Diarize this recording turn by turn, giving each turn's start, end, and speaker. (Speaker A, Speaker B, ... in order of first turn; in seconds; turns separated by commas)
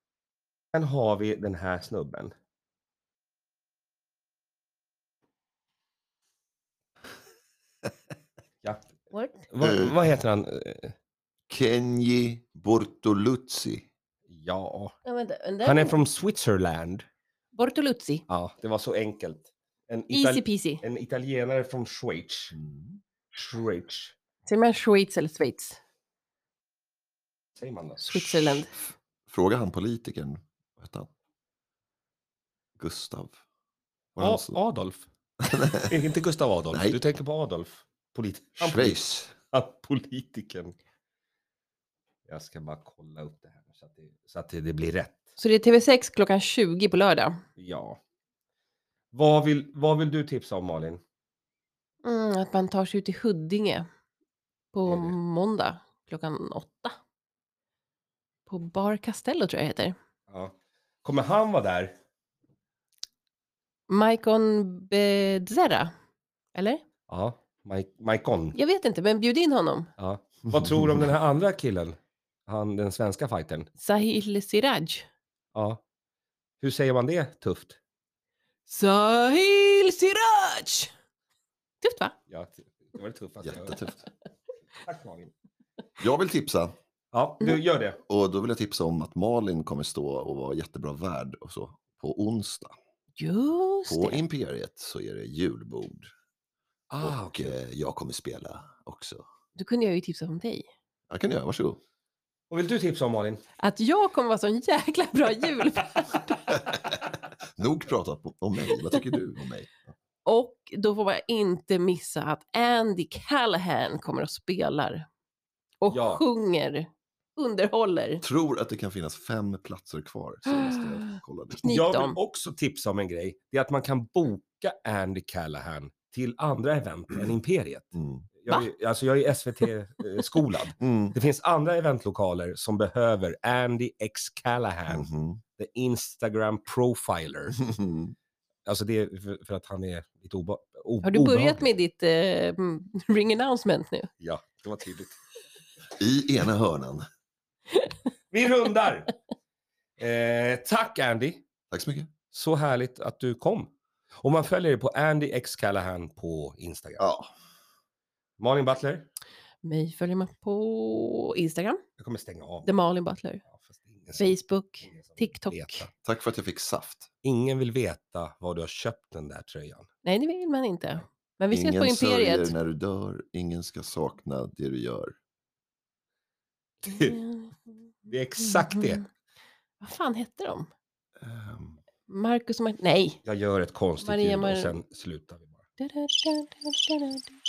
Speaker A: 0.7-2.3, Speaker B: 9.1-9.5, Speaker A: 9.5-10.9, Speaker C: 9.6-9.9, Speaker C: 11.5-13.9, Speaker A: 14.3-14.9, Speaker B: 15.1-16.0, Speaker A: 15.6-17.1, Speaker B: 17.6-18.2, Speaker A: 18.3-22.6, Speaker B: 20.1-20.8, Speaker C: 22.5-23.0, Speaker A: 23.3-24.1, Speaker B: 24.5-25.8, Speaker A: 27.6-28.0, Speaker B: 28.0-28.7, Speaker C: 28.2-28.6, Speaker C: 29.3-31.1, Speaker C: 32.8-33.4, Speaker C: 34.1-34.6, Speaker A: 34.2-35.1, Speaker C: 35.4-35.9, Speaker A: 35.8-40.8, Speaker C: 36.7-37.0, Speaker C: 38.6-39.4, Speaker A: 42.3-45.3, Speaker B: 45.4-47.4, Speaker A: 47.6-48.0, Speaker A: 49.1-51.0, Speaker B: 52.0-53.9, Speaker B: 54.7-57.0, Speaker A: 54.9-55.1, Speaker B: 58.5-60.0, Speaker A: 60.3-62.0, Speaker B: 63.9-65.9, Speaker B: 66.5-66.8, Speaker A: 67.1-68.6, Speaker B: 68.6-69.9, Speaker A: 70.0-73.7, Speaker B: 73.8-75.1, Speaker A: 75.5-75.8, Speaker A: 76.6-77.8, Speaker B: 78.7-80.9, Speaker B: 81.8-82.2, Speaker A: 82.3-83.8, Speaker C: 83.4-84.1, Speaker A: 84.8-85.3, Speaker C: 86.0-86.8, Speaker A: 87.1-88.0, Speaker C: 88.1-92.8, Speaker B: 93.2-94.2, Speaker C: 93.9-96.1, Speaker A: 96.9-97.5, Speaker C: 97.0-99.2, Speaker B: 99.6-100.7, Speaker C: 101.1-101.8, Speaker A: 102.5-103.4, Speaker B: 103.6-106.7, Speaker C: 107.6-109.8, Speaker B: 110.2-115.1, Speaker B: 115.8-118.2, Speaker A: 115.9-116.2, Speaker C: 118.2-121.7, Speaker B: 120.6-121.1, Speaker B: 121.6-122.2, Speaker A: 121.7-137.6, Speaker C: 128.0-128.3, Speaker C: 130.8-131.2, Speaker C: 134.9-135.4, Speaker C: 137.6-138.2, Speaker A: 138.7-141.7, Speaker B: 141.0-144.1, Speaker A: 144.2-145.2, Speaker C: 146.0-147.1, Speaker A: 148.3-149.1, Speaker A: 150.0-151.4, Speaker C: 151.7-152.1, Speaker A: 152.3-157.0, Speaker C: 157.0-157.3, Speaker A: 158.4-159.1, Speaker B: 159.6-161.8, Speaker A: 162.0-162.7, Speaker B: 162.7-163.4, Speaker A: 163.5-165.9, Speaker B: 164.2-165.9, Speaker C: 166.0-167.1, Speaker A: 167.2-169.9, Speaker B: 170.0-172.5, Speaker C: 171.5-175.1, Speaker A: 176.8-177.2, Speaker B: 176.9-177.7, Speaker A: 178.1-179.0, Speaker B: 178.4-179.1, Speaker B: 179.8-180.7, Speaker C: 181.2-181.8, Speaker B: 182.1-183.2, Speaker A: 183.2-185.6, Speaker B: 184.0-184.7, Speaker B: 185.8-187.3